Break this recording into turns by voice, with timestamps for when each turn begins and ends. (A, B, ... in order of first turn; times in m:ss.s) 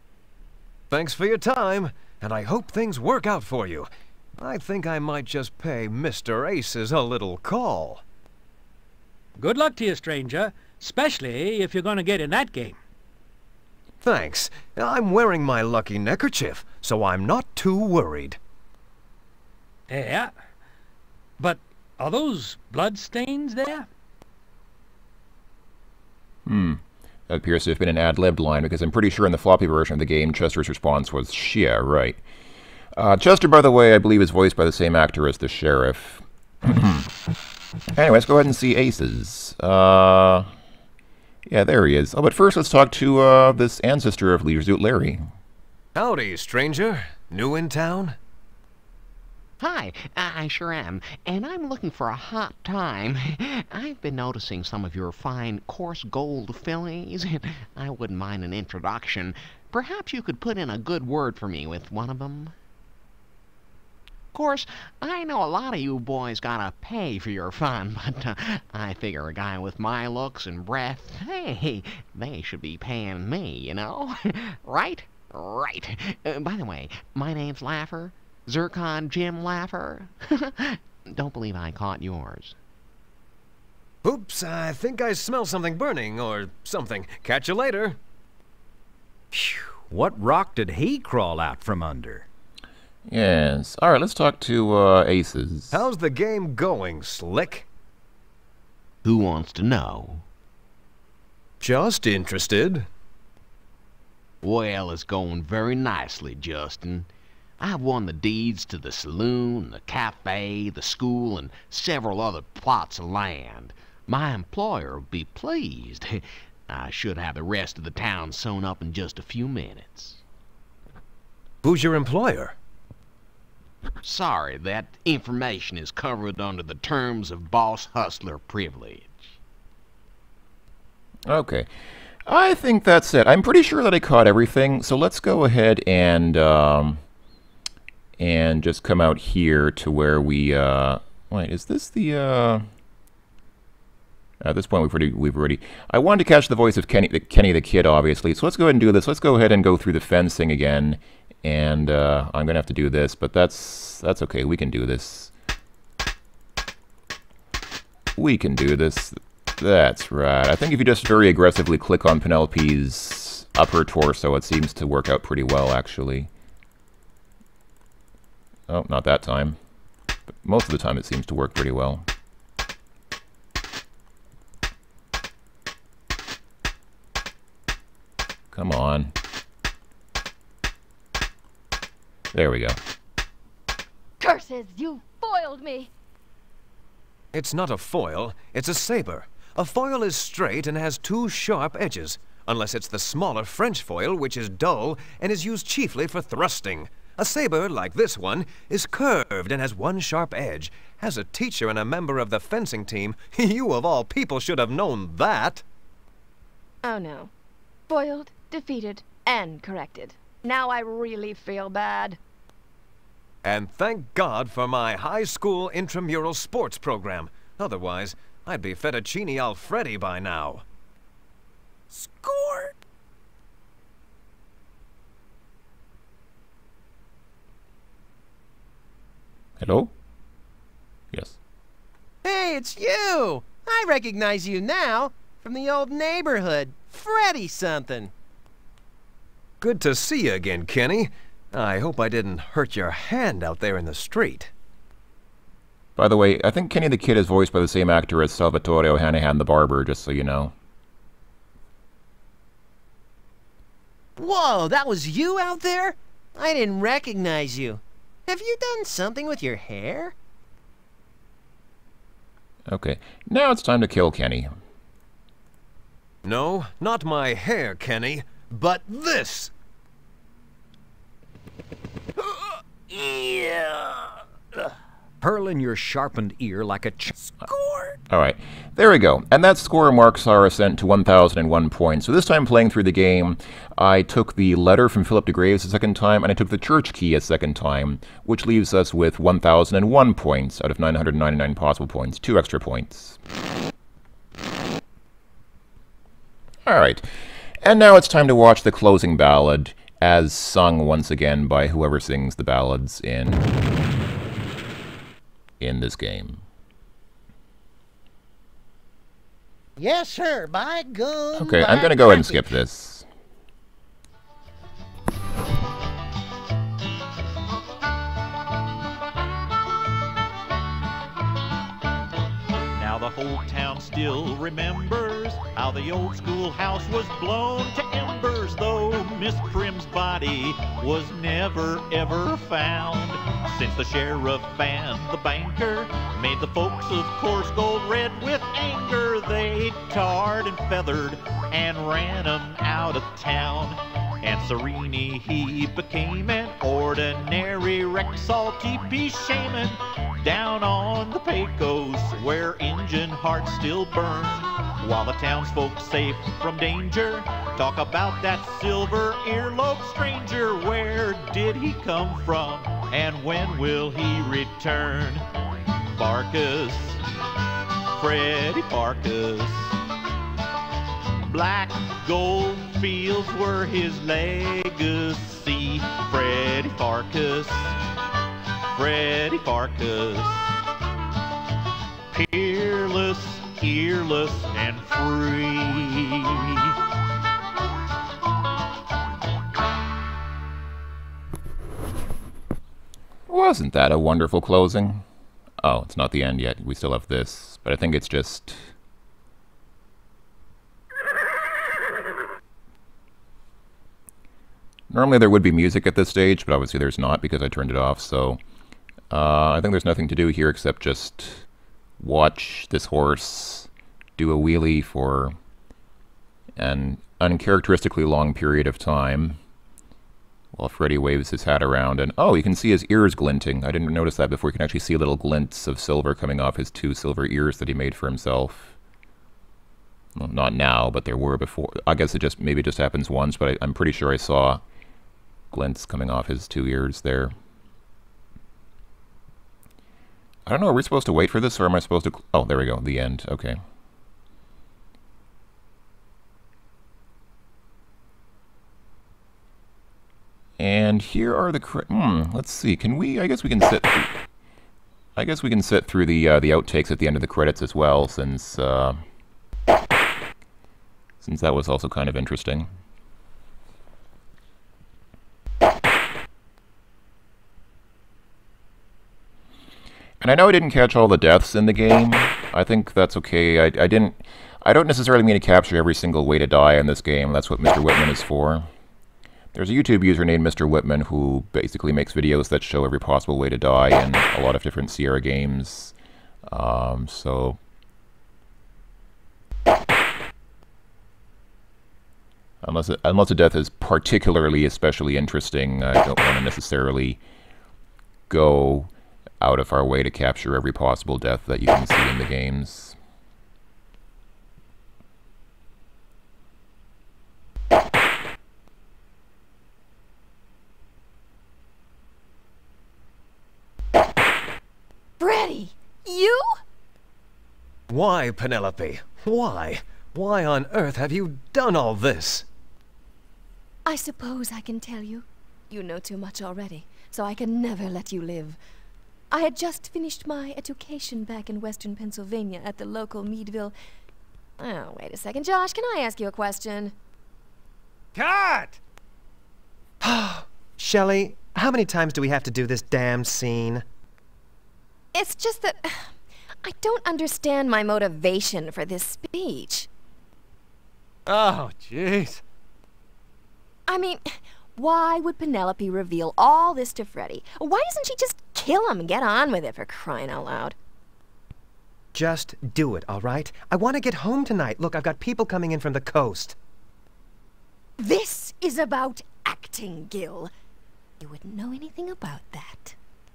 0:00.9-0:08.0 A
0:09.4-0:12.8 B
0:14.0-0:18.4 A
0:19.9-0:20.3 B
0:21.4-0:23.9 B
0:26.5-0:32.2 C
0:33.0-0:37.1 C
0:38.0-0:40.5 C
0:41.5-0:45.3 C
0:46.0-0:48.2 A
0:49.6-1:02.6 D
1:04.3-1:22.6 D
1:24.0-1:28.0 A
1:29.3-1:32.3 E
1:33.1-1:35.9 C
1:35.7-1:37.7 A
1:39.0-1:40.2 D
1:41.6-1:42.9 A
1:44.4-1:47.1 D
1:47.6-2:00.2 D
2:01.6-2:02.6 A
2:04.0-2:09.4 D
2:11.3-2:11.7 C
2:12.3-2:17.0 C
2:18.2-2:22.7 C
2:24.4-2:35.3 C
2:38.2-2:46.3 C
2:48.7-2:49.6 C
2:50.4-2:52.1 C
2:58.5-2:59.1 C
3:02.3-3:02.8 C
3:04.2-3:05.9 F
3:07.3-3:25.6 A
3:26.8-3:27.3 F
3:27.9-3:32.2 F
3:33.4-3:40.6 A
3:42.0-3:42.6 B
3:49.6-3:49.9 C
3:52.2-3:58.1 G
3:59.6-4:04.5 A
4:06.0-4:10.5 C
4:14.2-4:20.2 G
4:22.7-4:24.5 C
4:26.2-4:29.5 A
4:33.0-4:33.8 E
4:35.2-4:37.4 E
4:38.1-4:53.2 C
4:56.7-4:57.1 C
4:57.6-5:03.5 C
5:05.6-5:06.4 C
5:09.8-5:12.4 H
5:11.4-5:13.0 C
5:22.8-6:05.2 I
6:05.9-6:07.0 I
6:08.0-6:09.8 I
6:11.3-6:17.8 I
6:18.7-6:20.5 I
6:22.1-6:26.8 I
6:33.3-6:35.0 C
6:35.6-6:38.7 C
6:44.9-6:48.4 C
6:49.1-6:51.5 C
6:52.0-6:55.4 C
6:56.6-6:59.4 C
7:00.5-7:08.8 C
7:10.2-7:14.6 C
7:15.5-7:17.3 C
7:20.5-7:23.6 C
7:30.6-7:34.1 C
7:35.2-7:39.0 C
7:41.2-7:42.7 C
7:50.2-7:58.7 C
7:59.5-8:05.9 C
8:06.5-8:07.6 C
8:12.6-8:17.2 C
8:18.3-8:18.9 C
8:19.4-8:23.0 C
8:35.2-8:36.6 F
8:37.9-8:42.5 A
8:43.8-8:48.6 F
8:49.3-8:53.8 F
8:54.6-8:57.0 F
8:58.2-8:58.8 G
9:00.0-9:03.8 A
9:05.1-9:09.9 F
9:11.3-9:12.4 G
9:13.9-9:20.8 F
9:22.1-9:26.6 A
9:28.0-9:30.5 F
9:31.2-9:33.0 F